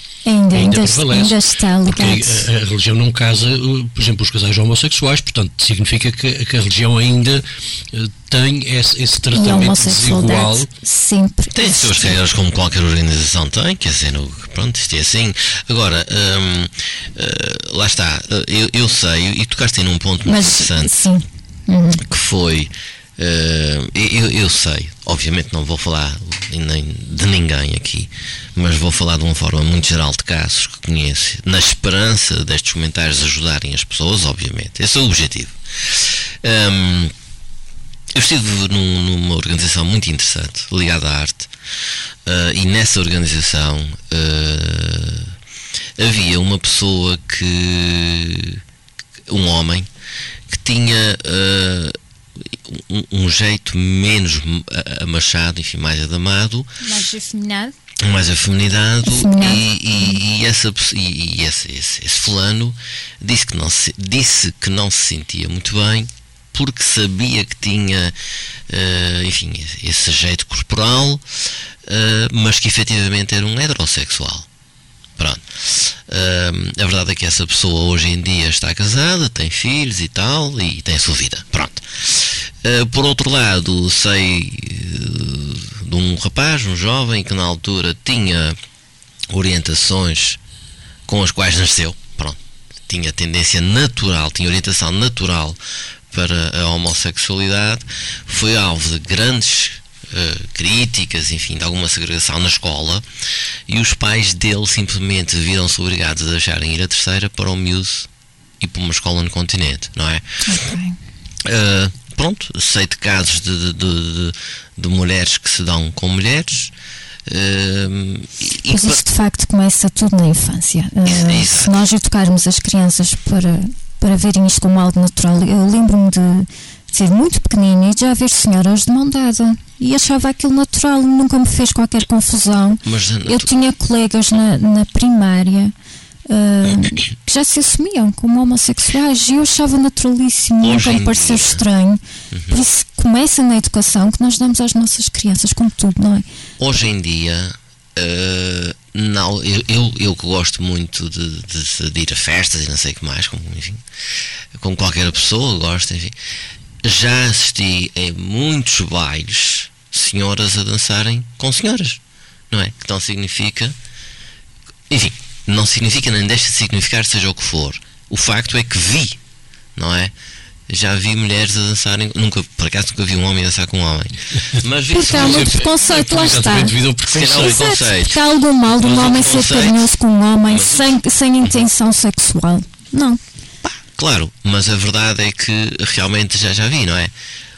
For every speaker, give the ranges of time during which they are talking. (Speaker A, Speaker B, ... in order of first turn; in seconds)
Speaker A: 0.2-2.5, 9.3-12.2, 20.2-22.0, 56.8-57.8, 59.0-60.2, 110.4-111.0, 118.7-135.7, 136.3-146.2, 174.9-176.7, 177.3-183.2
Speaker B: 0.5-10.7, 175.1-177.6
Speaker C: 11.5-20.9, 22.0-37.1, 38.1-41.5, 42.2-45.3, 46.0-48.6, 49.3-49.9, 50.5-52.0, 52.5-56.7, 58.0-68.2, 68.7-71.2, 71.8-74.5, 75.2-88.6, 89.3-90.4, 91.0-95.6, 96.1-103.0, 103.7-108.1, 108.6-110.4, 111.4-116.7, 117.2-119.0, 121.0-121.8, 132.8-133.5, 136.7-136.9, 140.6-141.6, 142.3-142.6, 146.6-153.8, 154.5-156.2, 156.8-162.0, 162.5-163.8, 164.9-169.2, 169.8-170.1, 170.7-175.7, 177.1-179.9, 180.5-180.9, 183.6-187.1